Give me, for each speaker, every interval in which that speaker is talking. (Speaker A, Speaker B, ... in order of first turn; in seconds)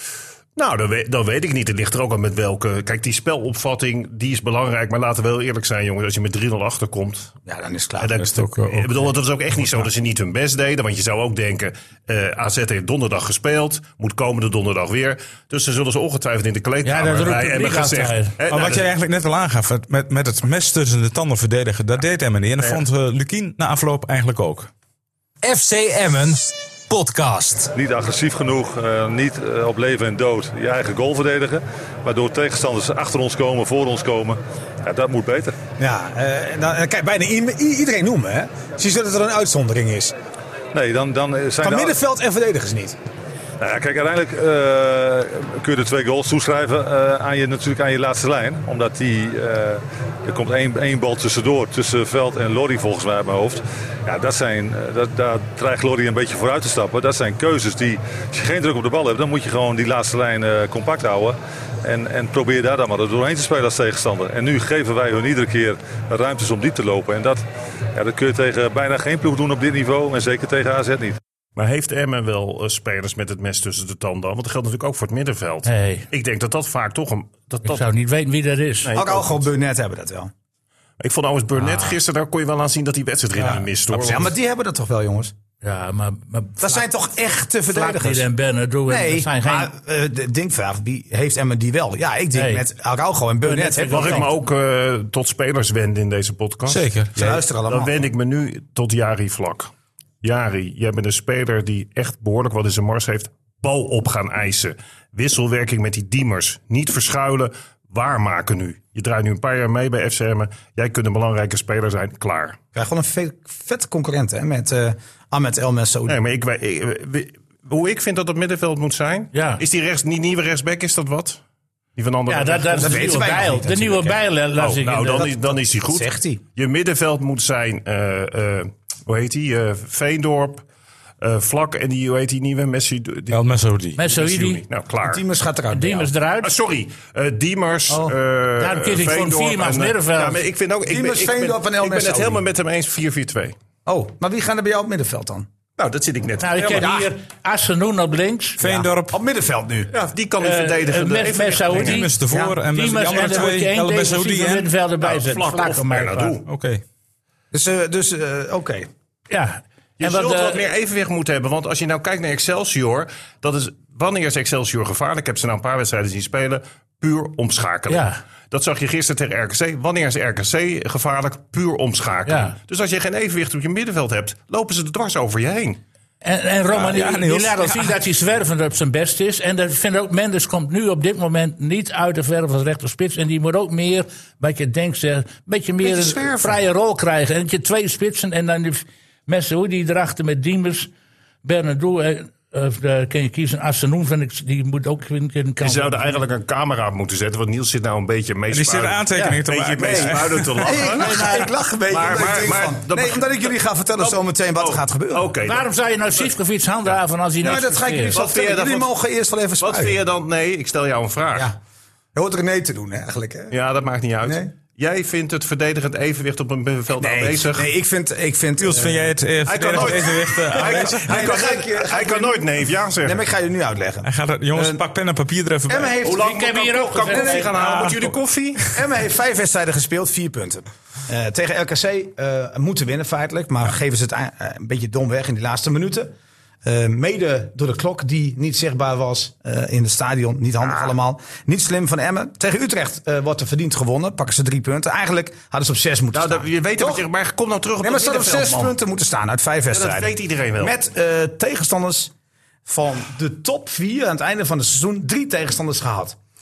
Speaker A: 0.6-7.3, 8.0-18.9, 71.5-77.8, 78.8-79.5, 81.0-84.3, 93.9-96.8, 97.7-99.7, 100.2-112.6, 116.1-121.4, 122.0-123.2, 124.6-130.6, 131.2-133.4, 134.1-135.2, 136.4-143.5, 145.8-146.9, 149.9-152.0, 155.0-156.5, 160.0-175.8, 185.8-186.6, 195.6-201.3, 201.9-205.7, 208.1-208.9, 209.6-211.5, 213.5-217.7, 219.4-223.2, 226.0-228.7, 246.1-248.8, 249.7-250.8
Speaker B: 7.5-8.2, 35.8-40.1, 41.6-43.0, 78.9-80.3, 83.4-85.3, 86.6-88.3, 88.9-94.3, 97.1-98.0, 112.7-116.2, 122.8-124.2, 125.1-126.4, 135.0-136.1, 140.8-142.4, 143.8-145.5, 146.6-147.1, 148.6-149.9, 152.3-152.6, 157.5-158.9, 199.8-205.3, 207.4-210.0, 212.1-213.6, 214.2-214.5, 216.9-219.1, 219.7-224.8, 225.7-227.5, 228.7-236.1, 236.6-247.1, 247.8-252.1, 252.7-256.2
Speaker C: 8.3-8.8, 18.5-24.7, 96.7-97.3, 133.3-134.0, 148.6-149.1, 151.8-154.7, 156.5-156.8, 176.7-178.0, 198.5-200.7, 218.6-221.3, 224.0-225.9
Speaker D: 16.8-18.3, 75.7-76.1, 77.6-78.9, 81.5-82.0, 85.6-86.8, 87.7-89.7, 92.3-92.6, 93.4-94.3, 119.3-119.6, 122.3-125.3, 133.9-134.6, 135.7-136.5, 138.6-140.4, 146.4-148.6, 150.4-152.1, 152.7-156.4, 159.3-160.6, 167.9-168.2, 172.2-172.5, 176.2-190.9, 191.4-196.2, 200.9-201.5, 205.4-208.2, 226.1-227.9
Speaker E: 25.4-27.7
Speaker F: 27.7-35.6, 40.7-41.9, 43.6-71.2